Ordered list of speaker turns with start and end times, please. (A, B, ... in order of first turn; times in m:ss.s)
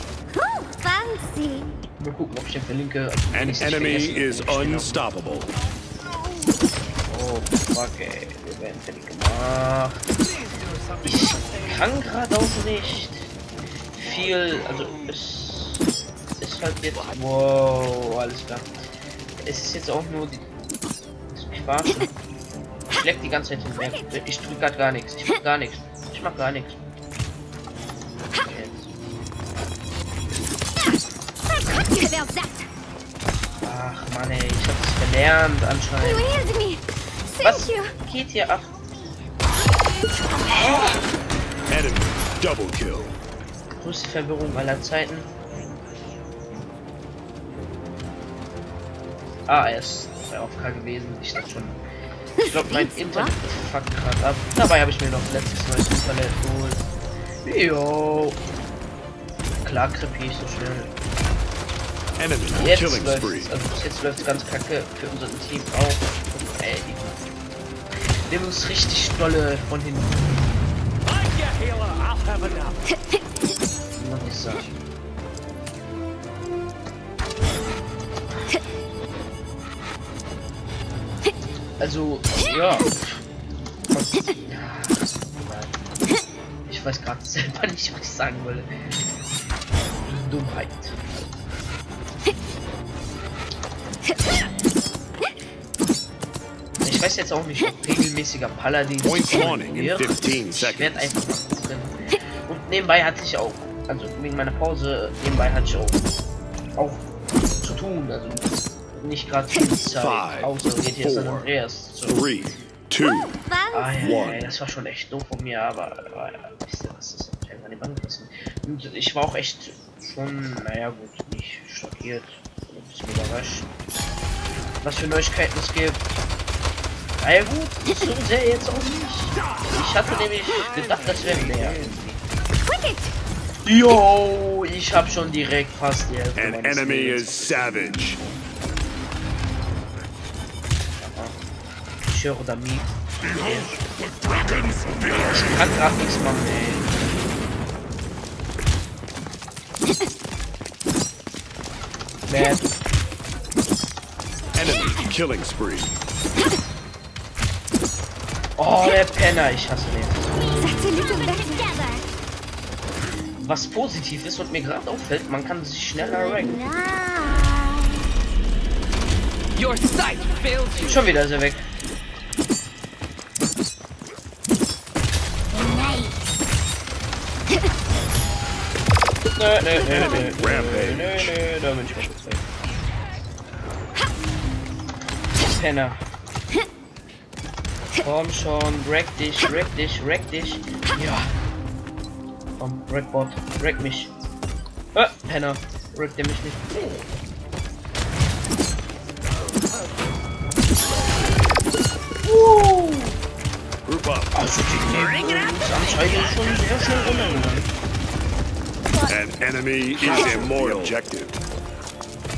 0:00.3-0:01.8 A
0:02.0-0:05.0 B
0:03.3-0:05.5 C
0:07.1-0:10.0 B
0:11.0-0:13.3 B
0:13.9-0:18.7 B
0:19.4-0:20.5 B
0:21.3-0:22.1 B
0:22.9-0:26.8 B
0:28.3-0:28.9 B
0:31.8-0:32.7 A
0:33.6-0:36.3 B
0:36.0-0:37.9 A
0:37.4-0:38.9 B
0:41.7-0:43.2 C
0:43.8-0:45.3 B
0:49.5-0:51.8 B
0:52.4-0:56.8 B
0:52.4-0:53.3 A
0:57.4-0:58.4 B
0:59.6-1:00.9 B
1:02.2-1:03.5 C
1:02.5-1:07.1 B
1:08.3-1:10.2 B
1:11.2-1:12.8 D
1:14.0-1:14.8 B
1:21.8-1:23.2 B
1:23.9-1:25.8 B
1:26.7-1:28.7 B
1:30.0-1:31.2 B
1:36.8-1:41.9 B
1:39.0-1:41.1 C
1:42.5-1:46.0 B
1:46.8-1:47.1 B
1:47.6-1:52.2 B
1:50.0-1:51.5 C
1:52.1-1:53.4 C
1:53.5-1:53.9 A
1:53.7-2:03.7 B
1:54.0-1:54.5 C
2:04.8-2:06.0 B
2:07.2-2:12.2 B
2:12.6-2:13.1 A
2:13.6-2:18.3 B
2:16.4-2:18.2 C
2:21.0-2:21.4 B
2:22.1-2:23.8 B
2:25.2-2:26.9 B
2:32.3-2:32.7 B
2:34.6-2:36.0 C
2:38.6-2:40.4 B
2:40.5-2:42.0 A
2:43.4-2:46.6 B
2:46.0-2:48.1 A
2:49.6-2:51.0 D
2:50.8-2:51.7 B
2:55.5-2:56.2 A
2:59.4-3:02.4 B
2:59.9-3:00.3 A
2:59.9-3:01.4 C
3:05.5-3:06.0 B
3:08.0-3:11.3 B
3:12.6-3:14.1 B
3:15.0-3:17.1 B
3:22.2-3:23.2 B
3:23.9-3:24.4 C
3:24.3-3:27.7 B
3:29.1-3:31.4 C
3:30.1-3:30.9 B
3:30.1-3:30.5 A